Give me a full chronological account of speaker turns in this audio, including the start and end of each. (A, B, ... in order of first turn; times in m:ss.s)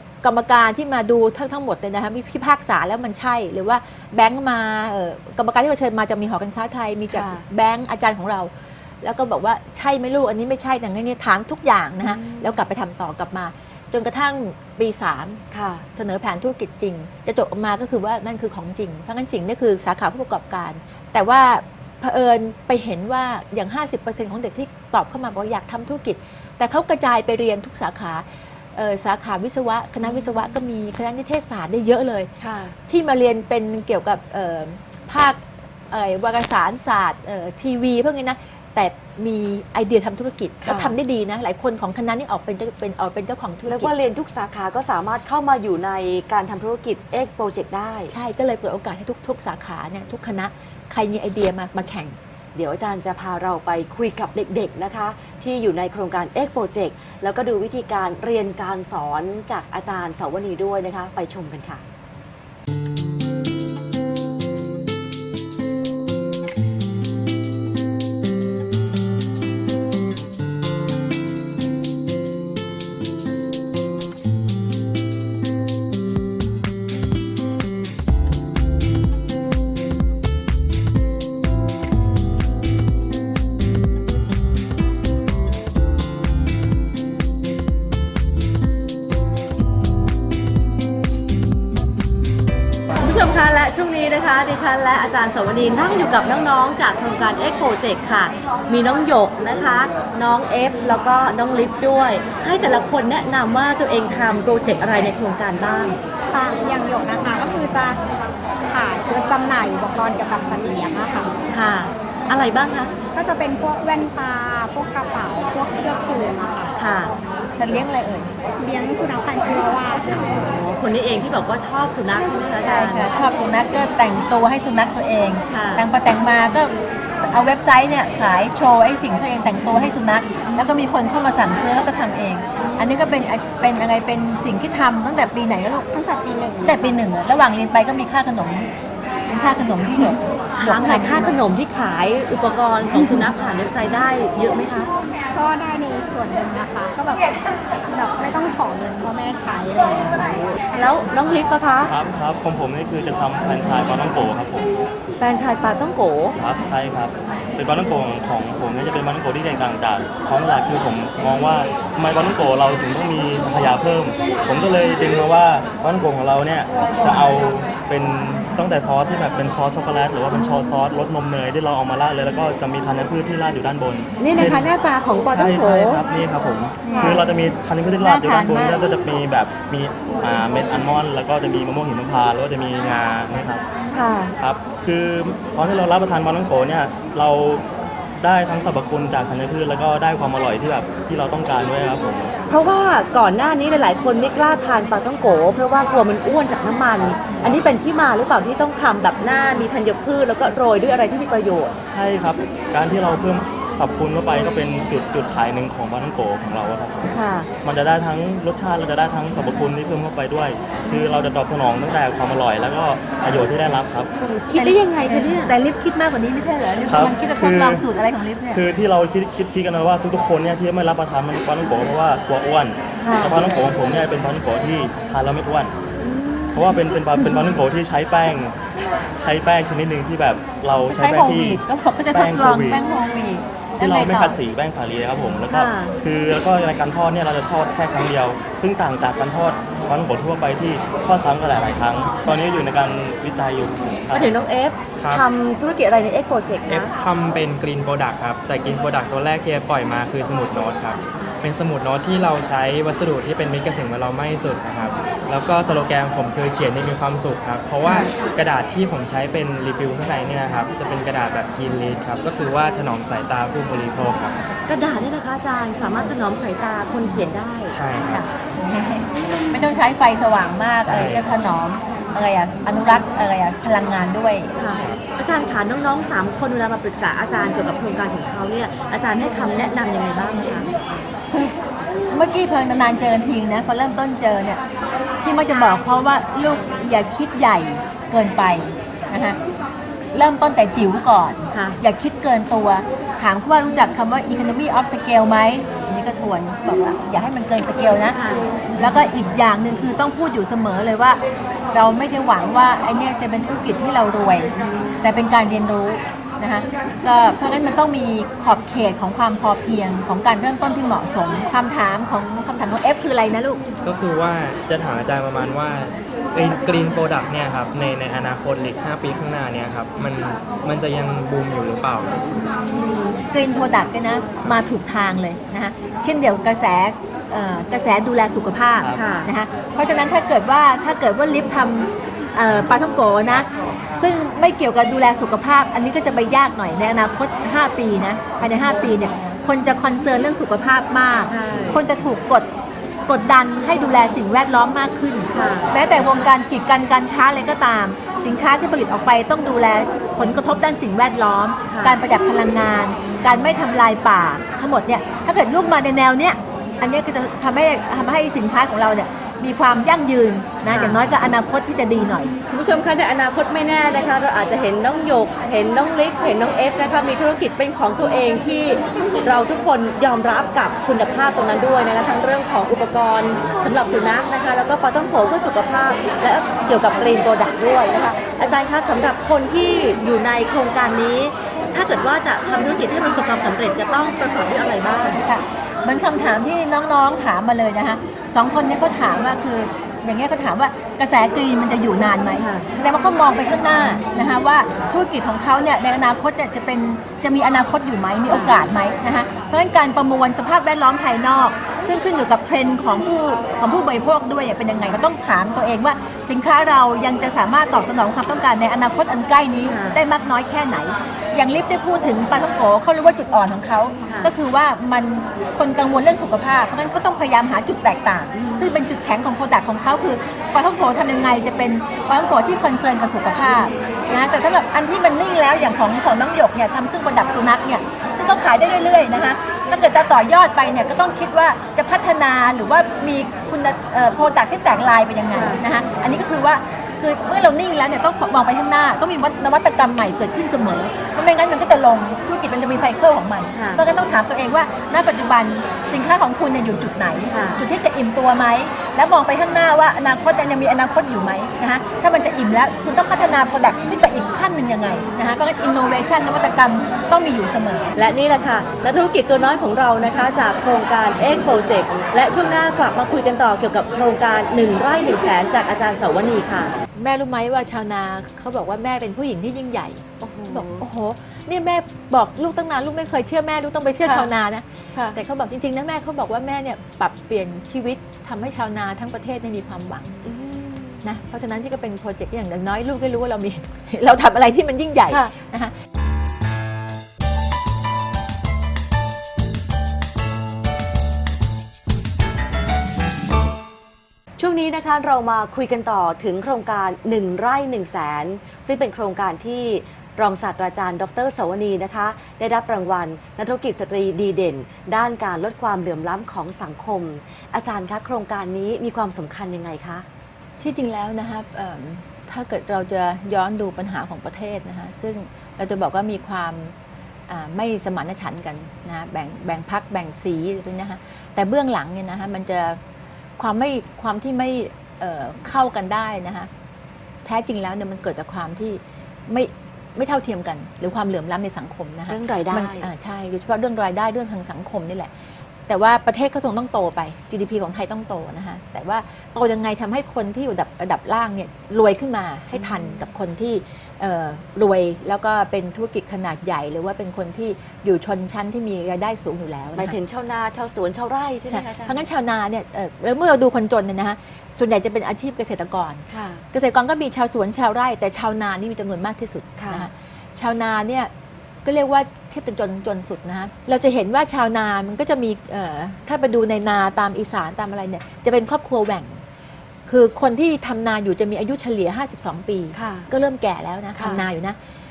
0:00.2-0:15.4 A
0:07.1-0:07.4 B
0:12.0-0:12.6 B
0:15.5-0:15.8 B
0:15.9-0:32.3 A
0:32.4-0:32.8 B
0:32.9-0:43.9 A
0:40.6-0:41.0 B
0:43.7-0:48.1 B
0:48.1-0:52.2 A
0:52.6-1:01.8 B
1:33.0-1:46.0 B
1:46.3-1:48.0 C
1:48.7-1:51.3 C
1:51.5-1:52.9 B
1:53.2-1:56.7 C
1:56.8-1:57.1 B
1:57.6-1:58.4 A
1:58.6-2:00.3 C
2:00.1-2:03.1 B
2:02.6-2:15.9 A
2:05.5-2:05.9 B
2:12.6-2:12.9 B
2:15.9-2:17.0 C
2:16.6-2:18.7 A
2:19.3-2:21.4 A
2:20.6-2:24.9 B
2:22.9-2:23.2 A
2:25.3-2:30.4 C
2:30.6-2:31.9 B
2:31.8-2:34.7 D
2:35.2-2:36.4 B
2:36.4-2:54.7 D
2:54.2-2:56.0 B
2:55.3-3:03.6 D
2:56.8-2:57.2 A
2:56.9-2:57.2 B
2:58.0-2:58.8 A
3:03.9-3:04.3 B
3:04.4-3:07.6 D
3:08.2-3:12.3 D
3:12.5-3:21.8 B
3:17.1-3:17.6 D
3:21.9-3:34.1 D
3:27.1-3:27.5 B
3:34.2-3:35.5 B
3:34.5-3:38.6 A
3:36.9-3:37.8 D
3:38.5-3:45.7 D
3:43.0-3:43.7 B
3:46.0-3:47.4 B
3:46.5-3:52.8 D
3:50.8-3:54.4 A
3:53.8-4:04.4 D
3:55.5-3:56.0 B
4:04.1-4:06.9 B
4:05.0-4:05.2 E
4:06.7-4:24.4 E
4:17.8-4:18.3 B
4:24.7-4:28.3 B
4:27.7-4:28.3 E
4:28.6-4:34.5 A
4:30.9-4:31.3 E
4:34.6-4:41.0 B
4:41.3-4:41.6 A
4:42.1-4:44.6 A
4:45.2-4:49.4 A
4:50.1-4:58.2 A
4:51.5-4:51.8 B
4:58.1-4:59.1 B
4:58.8-5:01.2 A
5:01.7-5:13.6 A
5:04.6-5:05.0 B
5:13.8-5:22.3 E
5:22.4-5:23.2 B
5:23.3-5:42.5 A
5:28.9-5:29.3 B
5:41.3-5:41.8 B
5:43.1-6:02.3 A
5:45.3-5:45.8 B
5:51.7-5:52.0 B
6:00.7-6:01.1 B
6:02.5-6:25.2 B
6:25.1-7:37.9 A
6:32.4-6:32.7 B
6:38.3-6:38.6 B
6:49.7-6:50.0 B
6:54.1-6:54.3 B
6:58.3-6:58.7 B
7:15.3-7:15.6 B
7:23.5-7:23.8 B
7:27.3-7:27.6 B
7:38.0-7:46.8 B
7:47.0-8:00.2 A
7:50.2-7:50.8 B
7:54.0-7:54.3 B
8:00.2-8:01.0 B
8:01.0-8:05.7 A
8:14.4-8:30.1 B
8:30.6-8:36.8 A
8:37.3-8:42.8 A
8:43.4-8:46.5 A
8:47.2-8:55.1 A
8:52.1-8:52.9 B
8:55.7-9:10.0 A
9:02.5-9:03.0 B
9:09.8-9:12.0 B
9:11.5-9:21.1 A
9:16.1-9:16.5 B
9:19.6-9:19.9 B
9:21.6-9:29.2 A
9:29.9-9:34.6 A
9:32.7-9:33.1 B
9:34.0-9:34.2 B